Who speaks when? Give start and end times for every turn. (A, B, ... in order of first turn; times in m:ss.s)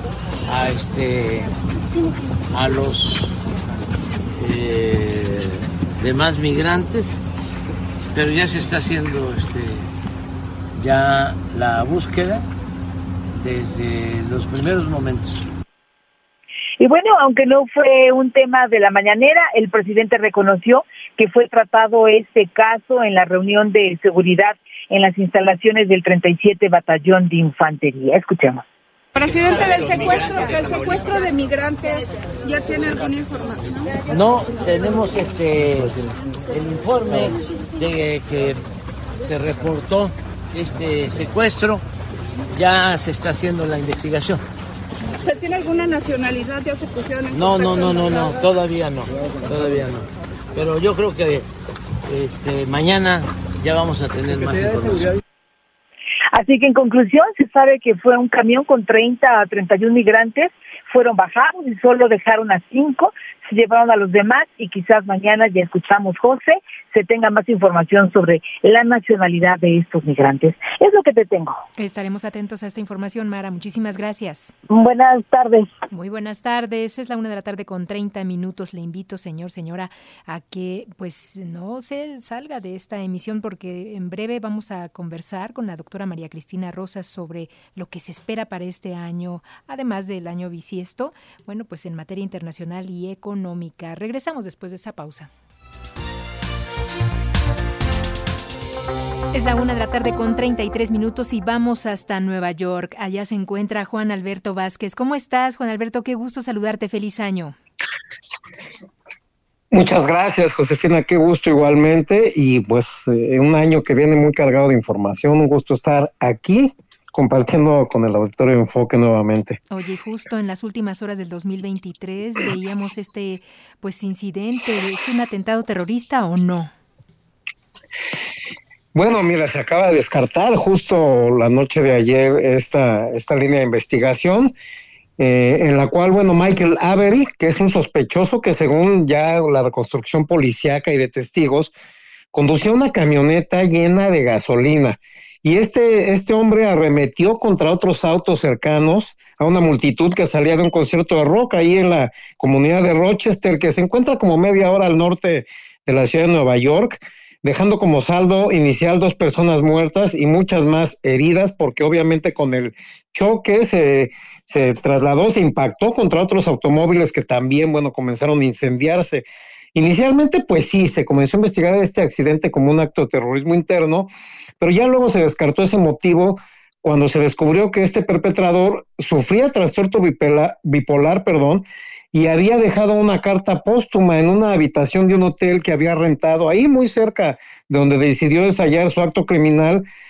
0:00.5-0:01.5 A
0:02.5-0:03.3 A
0:04.3-0:07.2 A
0:08.1-0:09.9 A
0:10.8-0:12.5 A
0:13.3-0:15.4 A
0:16.8-0:28.6 B
0:29.1-0:34.0 C
0:34.0-0:38.6 A
0:39.2-0:41.8 A
0:42.5-0:44.4 A
0:45.2-0:48.4 C
0:47.3-0:51.4 A
0:52.1-0:55.2 A
0:56.3-1:11.6 B
1:11.8-1:14.5 D
1:14.7-1:15.7 B
1:15.9-1:35.3 D
1:39.3-1:47.6 D
1:49.7-1:59.6 E
1:59.7-2:06.7 D
2:08.9-2:14.5 E
2:15.2-2:21.7 E
2:22.3-2:54.1 E
2:54.6-3:09.8 E